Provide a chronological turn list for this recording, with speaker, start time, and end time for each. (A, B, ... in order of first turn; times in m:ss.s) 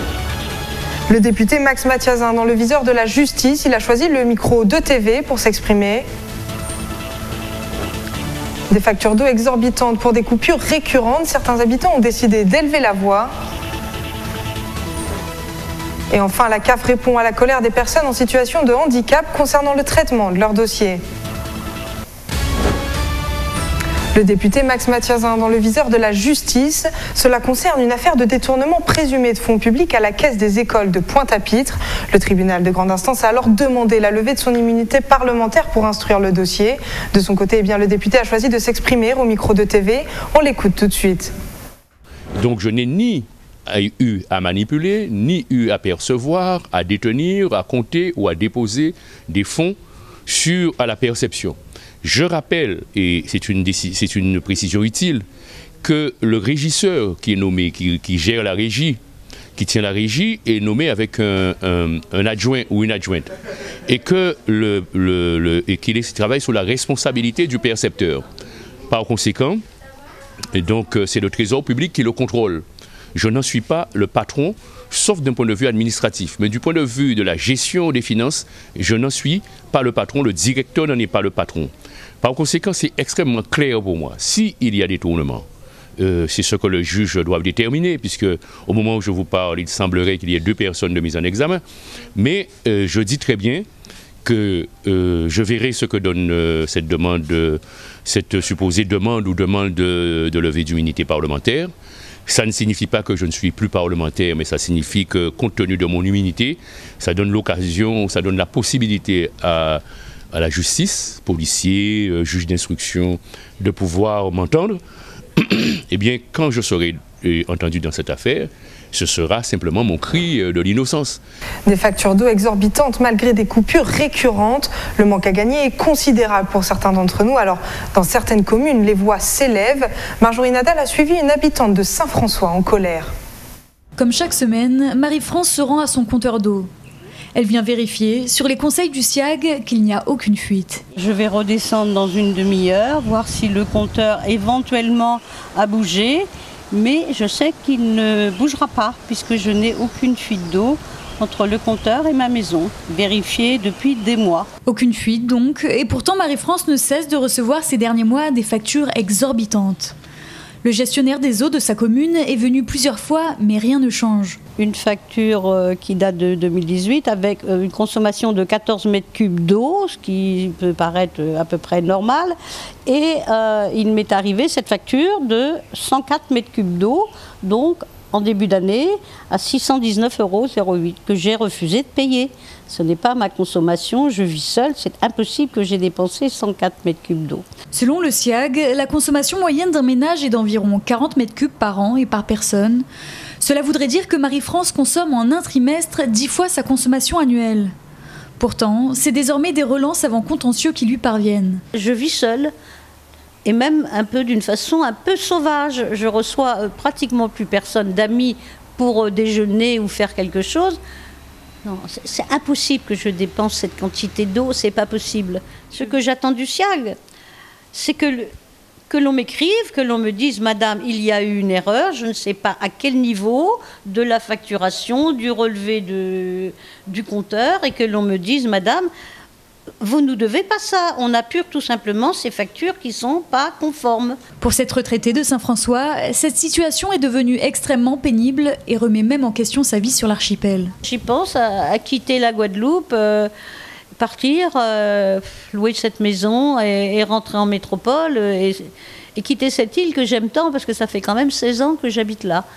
0:01.1-0:06.1 A
0:08.7-0:13.3 A
0:16.1-0:21.0 A
0:24.2-0:41.3 A
0:42.4-0:49.8 B
0:50.3-0:55.2 B
0:55.8-0:59.0 B
0:59.6-1:03.3 B
1:03.9-1:08.2 B
1:08.9-1:09.6 B
1:10.5-1:25.5 B
1:26.0-1:31.6 B
1:32.2-1:33.7 B
1:34.2-1:41.7 B
1:42.3-1:49.8 B
1:50.3-1:54.8 B
1:55.4-2:01.2 B
2:01.7-2:13.1 A
2:14.0-2:16.7 C
2:17.4-2:20.8 C
2:21.0-2:34.5 D
2:34.7-2:40.0 C
2:40.6-2:44.4 C
2:44.6-2:52.2 D
2:52.9-2:58.8 D
2:59.4-3:07.4 D
3:07.7-3:12.8 C
3:13.4-3:17.7 C
3:18.4-3:21.6 C
3:21.8-3:22.5 D
3:23.5-3:30.8 D
3:31.7-3:36.9 D
3:37.7-3:38.3 D
3:38.9-3:48.9 D
3:49.8-3:54.2 D
3:54.4-4:00.7 C
4:00.9-4:03.3 D
4:04.0-4:08.6 D
4:09.2-4:12.4 D